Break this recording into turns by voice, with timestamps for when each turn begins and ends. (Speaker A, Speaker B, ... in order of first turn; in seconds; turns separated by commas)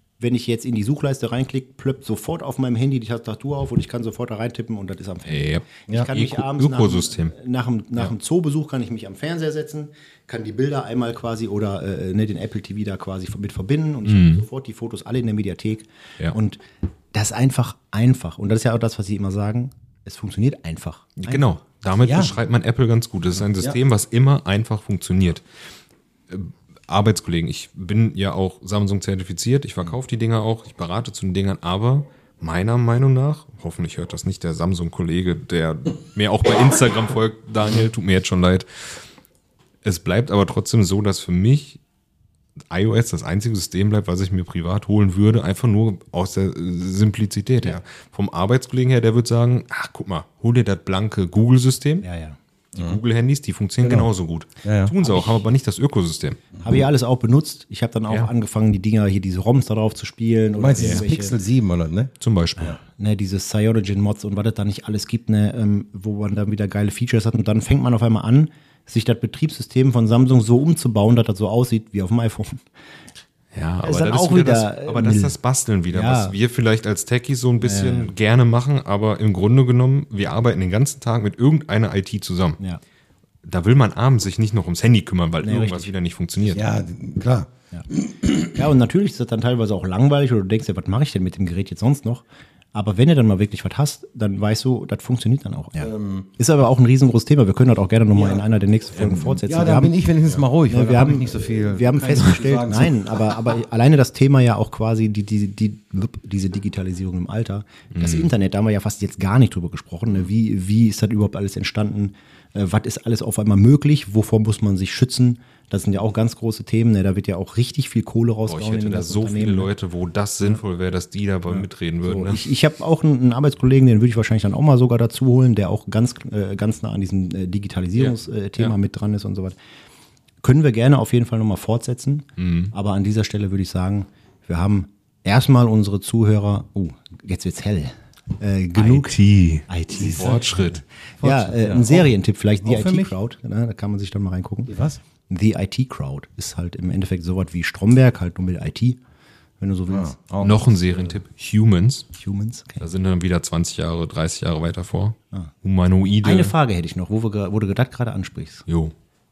Speaker A: 0.2-21.4, Speaker B: 5.3-7.3, Speaker B: 14.0-14.4, Speaker B: 21.2-25.4, Speaker C: 22.0-22.3, Speaker B: 26.3-39.0, Speaker B: 39.8-41.8, Speaker B: 42.7-52.0, Speaker A: 52.0-52.4, Speaker B: 52.7-56.4, Speaker C: 53.8-54.1, Speaker C: 54.6-55.0, Speaker A: 55.0-55.4, Speaker A: 56.6-61.3, Speaker C: 60.5-62.1, Speaker B: 60.8-61.0, Speaker B: 62.2-62.8, Speaker A: 62.8-72.7, Speaker B: 73.5-82.6, Speaker A: 73.8-75.3, Speaker A: 75.9-76.3, Speaker A: 77.6-78.1, Speaker B: 83.4-86.6, Speaker A: 85.4-85.9, Speaker C: 86.5-88.3, Speaker A: 88.5-100.0, Speaker C: 95.8-96.3, Speaker C: 98.1-103.5, Speaker A: 100.7-119.7, Speaker B: 107.9-108.3, Speaker B: 118.5-122.4, Speaker A: 122.0-129.5, Speaker B: 128.0-128.7, Speaker A: 130.4-140.6, Speaker B: 132.4-132.7, Speaker B: 138.8-140.8, Speaker C: 140.1-140.4, Speaker C: 141.2-143.1, Speaker A: 141.2-144.7, Speaker C: 144.7-145.0, Speaker A: 145.3-149.0, Speaker A: 149.6-150.2, Speaker C: 149.9-150.7, Speaker B: 150.4-152.1, Speaker A: 152.1-152.9, Speaker B: 152.8-156.5, Speaker A: 156.2-158.7, Speaker B: 158.7-158.9